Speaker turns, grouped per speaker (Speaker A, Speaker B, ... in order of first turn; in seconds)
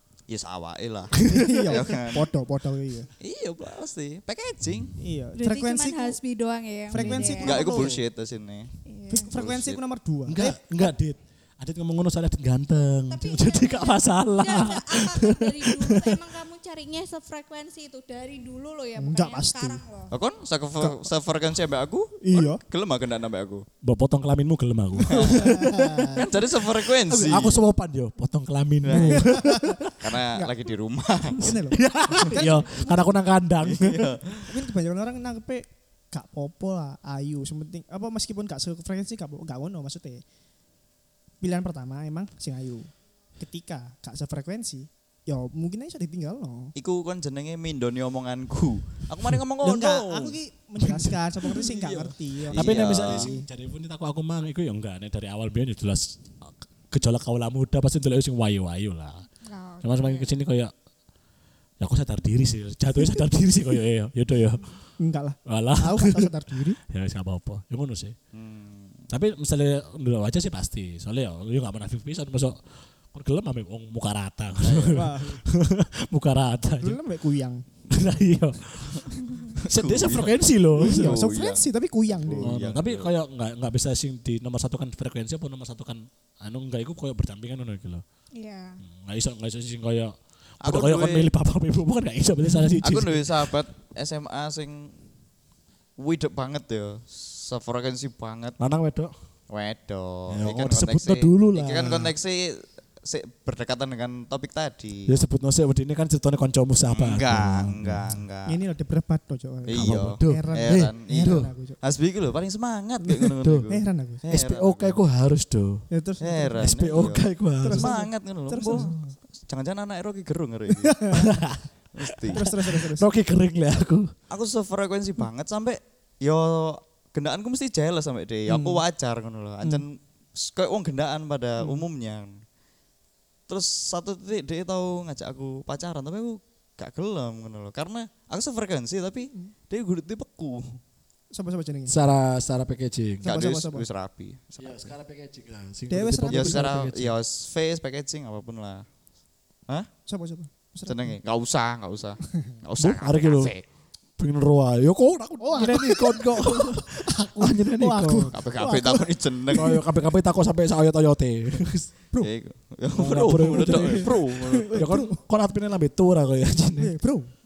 Speaker A: 0.3-2.3, 3.2-4.9, 7.4-8.7, 9.3-9.8, 20.1-23.6, 25.1-25.4, 26.1-27.6, 28.8-29.2, 30.0-31.5, 33.6-34.5, 46.8-50.4, 51.5-53.3, 68.3-69.1, 74.6-75.0, 79.0-83.1, 90.6-91.3, 92.8-94.9, 96.0-98.6, 99.5-105.1, 106.9-108.6, 109.7-115.0, 116.2-118.9, 119.5-121.1, 121.9-122.4, 124.3-132.4, 133.5-140.8, 143.2-144.9, 146.3-148.8, 150.9-153.6, 158.3-159.8, 162.2-164.8
Speaker B: 1.2-1.5, 6.9-7.4, 10.3-16.2, 23.8-26.3, 26.9-29.9, 31.5-34.1, 52.5-59.2, 59.8-60.7, 61.8-64.7, 65.5-68.2, 69.1-72.6, 73.1-77.0, 77.9-79.0, 79.7-81.2, 82.4-88.0, 88.8-93.5, 98.6-99.1, 100.3-102.1, 105.1-108.2, 109.7-111.5, 113.1-113.7, 114.3-115.8, 116.6-117.9, 121.1-124.1, 141.9-143.3, 144.6-147.1, 152.8-153.5, 154.2-158.3, 159.5-161.9, 162.9-166.9
Speaker C: 1.2-3.1, 5.0-6.2, 6.9-8.0, 9.1-10.6, 19.0-19.8, 20.8-21.1, 22.2-22.6, 25.2-26.2, 28.9-30.5, 31.4-33.0, 34.4-40.2, 41.4-46.7, 49.6-53.5, 65.0-66.8, 74.9-75.4, 76.8-77.6, 80.8-82.5, 108.5-111.8, 113.7-114.3, 115.9-116.7, 117.6-119.1, 120.7-121.3, 122.3-123.1, 128.5-128.8, 141.3-142.0, 143.2-143.8, 145.9-146.7, 150.1-151.2, 155.4-159.7, 163.9-165.2, 166.8-167.3
Speaker D: 5.3-8.0, 8.8-9.3, 13.1-20.1, 59.4-60.3, 88.3-88.8